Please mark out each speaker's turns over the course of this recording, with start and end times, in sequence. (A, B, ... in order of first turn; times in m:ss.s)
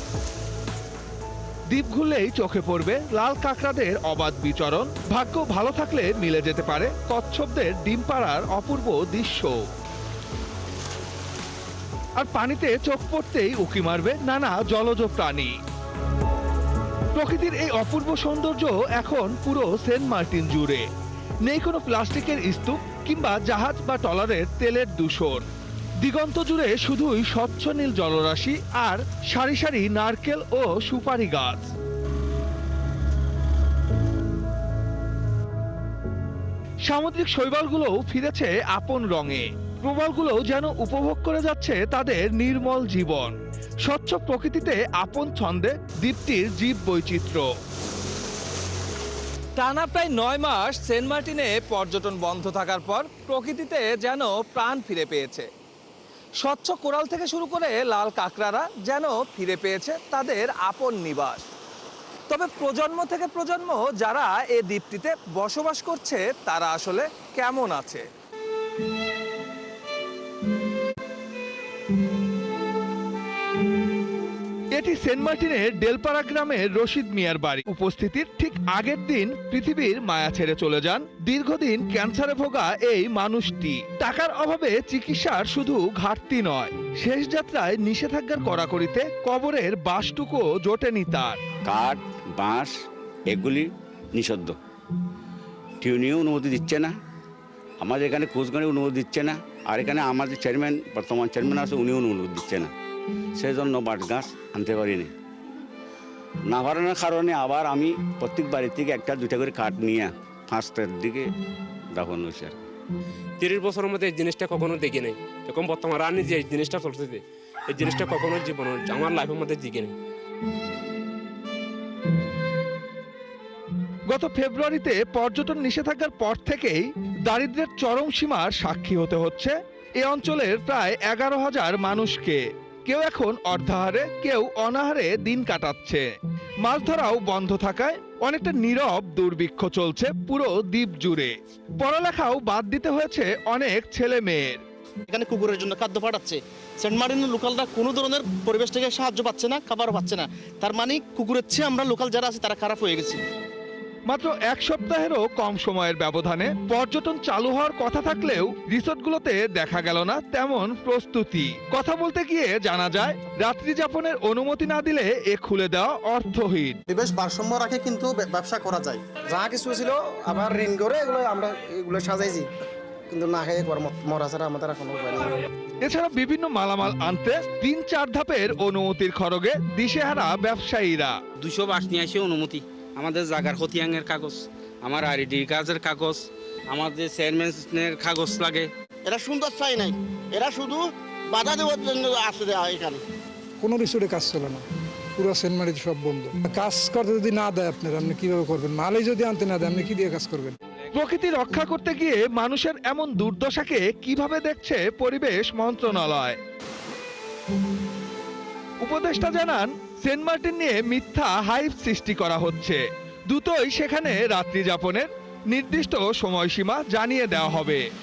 0:01.7-0:09.6 A
0:12.2-0:15.5 A
0:17.1-0:20.9 A
0:21.4-0:25.4 A
0:26.0-0:31.7 A
0:36.9-0:47.5 A
0:49.6-0:55.5 A
0:56.4-1:01.4 A
1:02.3-1:08.1 A
1:14.7-1:31.4 A
1:31.7-1:32.7 B
1:33.3-1:34.6 B
1:35.8-1:36.9 B
1:37.8-1:42.7 B
1:43.4-1:45.1 B
1:46.5-1:51.3 B
1:51.9-1:52.6 B
1:53.4-1:57.2 C
1:55.5-1:56.7 D
1:57.7-1:58.3 D
1:58.3-1:59.9 C
1:58.9-1:59.3 D
2:04.1-2:16.1 A
2:16.6-2:24.6 A
2:25.1-2:33.2 E
2:34.1-2:46.8 A
2:46.9-2:52.5 F
2:53.1-2:55.4 F
2:55.8-3:01.2 A
3:01.4-3:08.7 G
3:09.1-3:13.0 E
3:13.6-3:14.6 D
3:15.2-3:20.5 D
3:20.9-3:26.4 A
3:28.8-3:37.8 A